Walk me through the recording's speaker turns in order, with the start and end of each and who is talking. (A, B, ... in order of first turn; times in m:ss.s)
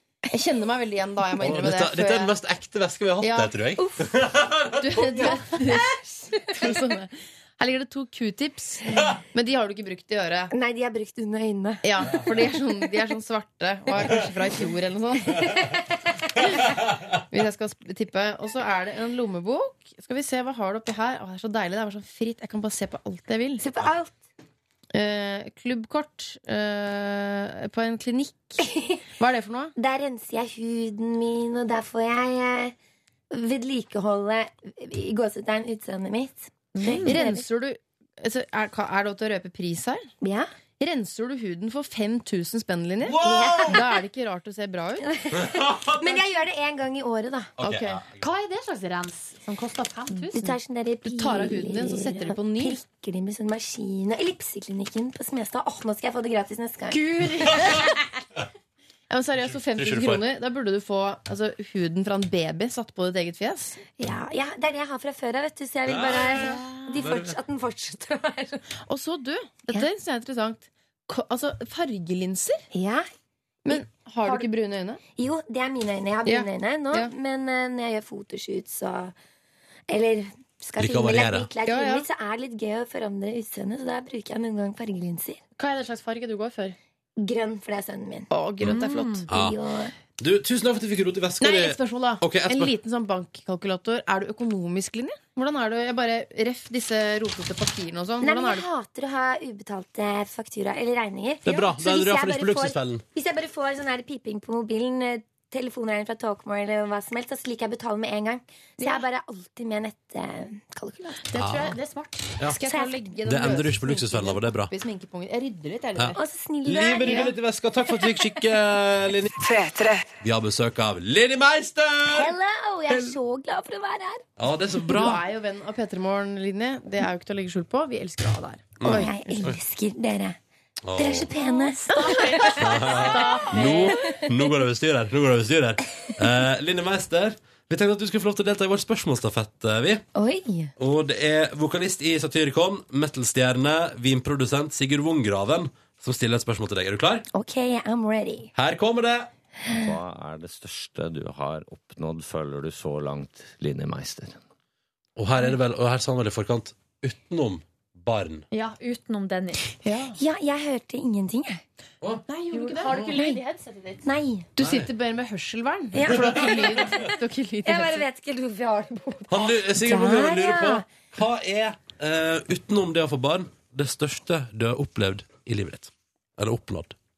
0:00.3-0:02.3 A
0:01.4-0:05.4 B
0:03.2-0:03.6 A
0:04.8-0:10.5 A
0:10.5-0:11.9 C
0:11.8-0:15.5 A
0:17.3-0:23.6 A
0:23.6-0:24.2 C
0:24.9-0:28.7 A
0:28.6-0:29.0 C
0:29.2-0:29.7 A
0:29.8-0:32.8 C
0:33.3-0:37.4 C
0:36.7-0:37.2 D
0:37.0-0:40.1 A
0:40.2-0:40.5 C
0:40.8-0:45.1 A
0:43.0-0:43.8 B
0:43.2-0:43.8 C
0:45.0-0:47.5 C
0:45.4-0:46.2 B
0:47.6-0:48.1 B
0:47.6-0:48.0 A
0:48.2-0:50.5 D
0:50.3-0:57.1 C
0:51.0-0:52.8 A
0:56.9-0:57.6 D
0:59.1-1:03.8 A
0:59.7-1:00.2 B
1:04.0-1:08.6 C
1:05.8-1:07.4 B
1:08.9-1:12.7 A
1:12.7-1:13.1 C
1:13.6-1:15.0 A
1:13.7-1:14.4 C
1:15.2-1:19.1 C
1:16.2-1:17.1 A
1:19.9-1:25.4 C
1:20.8-1:21.5 B
1:21.6-1:22.0 A
1:25.6-1:26.8 D
1:27.2-1:28.3 C
1:28.3-1:29.3 A
1:28.7-1:29.2 D
1:29.3-1:29.9 C
1:29.3-1:29.6 B
1:30.2-1:32.7 B
1:31.4-1:38.7 A
1:38.2-1:51.3 C
1:41.4-1:43.0 B
1:48.8-1:49.0 A
1:51.3-1:52.4 D
1:51.4-1:51.8 B
1:52.5-1:56.2 A
1:52.6-1:53.1 C
1:53.3-1:54.7 B
1:56.0-1:59.3 B
1:56.1-1:57.3 C
1:57.0-1:57.3 A
2:00.2-2:02.3 B
2:02.1-2:04.2 C
2:04.4-2:05.2 B
2:04.9-2:09.1 A
2:08.8-2:09.6 B
2:08.8-2:10.4 C
2:10.8-2:11.3 B
2:11.0-2:12.5 C
2:11.4-2:13.9 D
2:12.0-2:12.6 A
2:12.6-2:20.0 B
2:20.1-2:20.7 C
2:20.8-2:27.2 B
2:27.3-2:28.5 C
2:28.6-2:29.3 B
2:29.8-2:34.4 E
2:35.2-2:38.4 B
2:38.5-2:39.7 D
2:39.8-2:40.2 A
2:40.1-2:41.6 C
2:42.3-2:43.0 A
2:42.5-2:44.1 D
2:43.0-2:43.4 C
2:44.0-2:44.5 C
2:44.6-2:48.0 A
2:44.6-2:44.9 B
2:45.9-2:46.8 C
2:46.1-2:46.9 B
2:47.6-2:50.9 C
2:49.3-2:56.9 B